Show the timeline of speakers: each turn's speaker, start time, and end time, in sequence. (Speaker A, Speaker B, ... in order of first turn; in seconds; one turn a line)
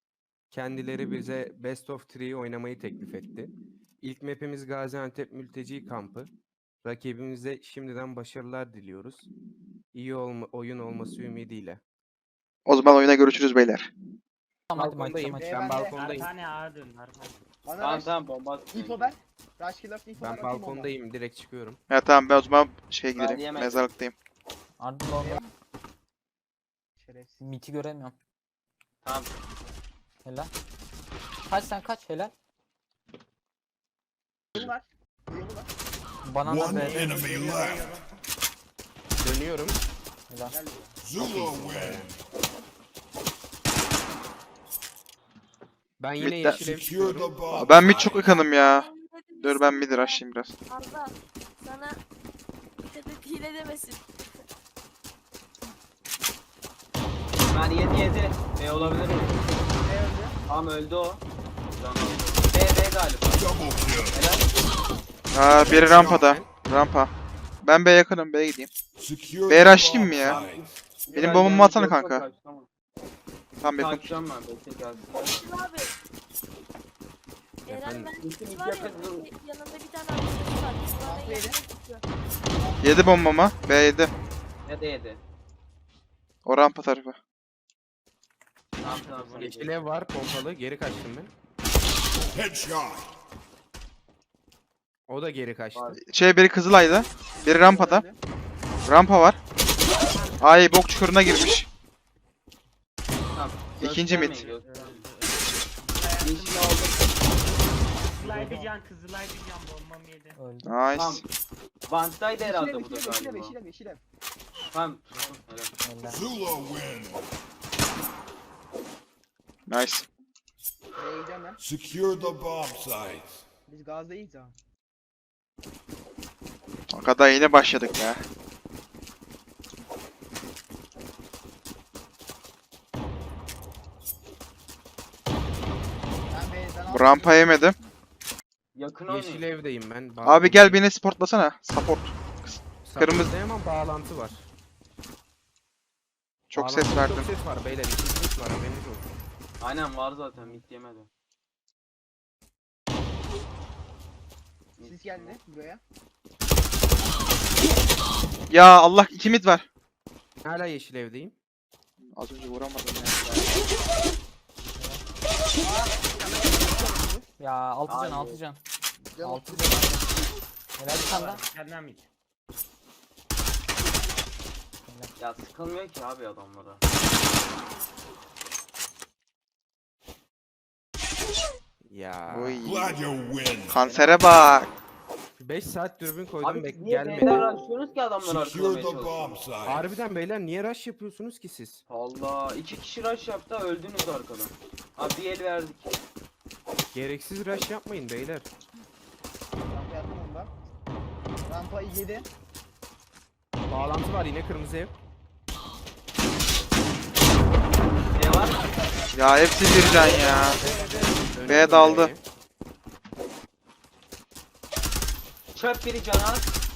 Speaker A: 0.5-6.3
Speaker A: 6.8-9.3
Speaker A: 9.9-11.8
Speaker B: 12.7-13.9
Speaker C: 14.7-15.6
Speaker A: 14.7-16.3
Speaker D: 15.3-16.2
Speaker E: 15.9-17.5
Speaker D: 17.6-18.2
Speaker F: 17.8-19.2
Speaker D: 18.7-20.9
Speaker A: 20.2-21.8
Speaker B: 21.9-24.1
Speaker F: 23.2-23.9
Speaker C: 24.8-25.4
Speaker D: 27.0-27.4
Speaker C: 27.4-28.1
Speaker F: 29.0-29.4
Speaker C: 30.2-30.5
Speaker C: 31.5-32.3
Speaker D: 34.5-35.7
Speaker C: 36.2-37.1
Speaker G: 36.4-37.9
Speaker E: 36.7-38.1
Speaker A: 39.2-39.8
Speaker C: 40.3-40.6
Speaker D: 40.5-41.0
Speaker G: 41.0-42.2
Speaker A: 41.2-42.1
Speaker A: 46.0-47.3
Speaker B: 46.2-46.6
Speaker G: 46.5-48.3
Speaker B: 47.5-48.9
Speaker H: 48.2-52.0
Speaker B: 49.4-50.5
Speaker H: 52.9-54.3
Speaker F: 57.5-59.6
Speaker C: 58.7-59.4
Speaker D: 59.8-60.4
Speaker F: 60.5-63.5
Speaker G: 63.3-64.2
Speaker F: 64.1-64.5
Speaker B: 65.3-67.1
Speaker A: 65.5-66.5
Speaker G: 65.7-66.3
Speaker B: 67.6-68.7
Speaker G: 69.0-70.7
Speaker B: 69.5-70.4
Speaker A: 70.2-70.7
Speaker F: 71.1-72.7
Speaker B: 71.1-72.2
Speaker B: 73.6-74.2
Speaker F: 73.8-75.4
Speaker H: 75.2-75.9
Speaker H: 77.7-82.0
Speaker A: 77.7-78.1
Speaker F: 78.2-79.3
Speaker D: 81.0-81.6
Speaker B: 82.8-84.1
Speaker F: 84.7-85.2
Speaker B: 86.5-87.2
Speaker F: 88.8-89.8
Speaker E: 88.8-89.8
Speaker A: 89.4-91.3
Speaker G: 92.3-93.1
Speaker A: 95.1-96.0
Speaker B: 96.0-98.0
Speaker D: 97.5-98.2
Speaker B: 98.9-99.4
Speaker E: 99.9-100.8
Speaker B: 100.4-101.7
Speaker F: 103.3-105.0
Speaker B: 103.8-104.4
Speaker E: 104.3-106.9
Speaker F: 106.2-107.1
Speaker E: 107.7-110.4
Speaker D: 108.2-108.7
Speaker C: 110.4-110.8
Speaker B: 110.6-111.2
Speaker F: 110.9-111.2
Speaker F: 111.9-113.6
Speaker D: 112.4-114.0
Speaker F: 114.7-115.7
Speaker C: 115.8-116.2
Speaker G: 116.0-117.3
Speaker B: 119.7-120.0
Speaker D: 121.0-121.6
Speaker G: 121.6-123.4
Speaker D: 123.7-124.5
Speaker B: 126.9-128.2
Speaker D: 136.3-137.6
Speaker B: 136.9-137.8
Speaker F: 138.8-139.5
Speaker A: 139.1-140.8
Speaker B: 140.2-143.3
Speaker A: 142.8-144.5
Speaker B: 146.5-147.3
Speaker A: 146.6-149.1
Speaker F: 149.6-151.1
Speaker F: 154.8-155.4
Speaker D: 154.8-155.8
Speaker B: 158.5-159.7
Speaker A: 160.4-161.3
Speaker B: 162.0-163.2
Speaker D: 165.6-167.3
Speaker C: 167.4-168.6
Speaker F: 167.9-168.4
Speaker D: 169.2-169.8
Speaker C: 169.2-170.1
Speaker C: 170.8-171.4
Speaker E: 170.9-172.1
Speaker C: 174.9-175.1
Speaker F: 175.2-176.8
Speaker A: 181.9-182.6
Speaker B: 182.3-182.9
Speaker G: 182.6-183.8
Speaker B: 183.7-184.7
Speaker E: 183.8-184.5
Speaker A: 185.4-187.4
Speaker F: 186.4-189.4
Speaker G: 188.2-190.0
Speaker A: 189.7-191.8
Speaker F: 191.9-195.9
Speaker A: 196.9-198.5
Speaker D: 199.6-200.5
Speaker D: 201.4-202.3
Speaker A: 203.7-204.9
Speaker F: 208.1-208.6
Speaker B: 209.1-210.6
Speaker E: 209.8-211.7
Speaker C: 210.3-211.1
Speaker A: 210.5-212.2
Speaker B: 211.5-212.1
Speaker F: 215.6-216.5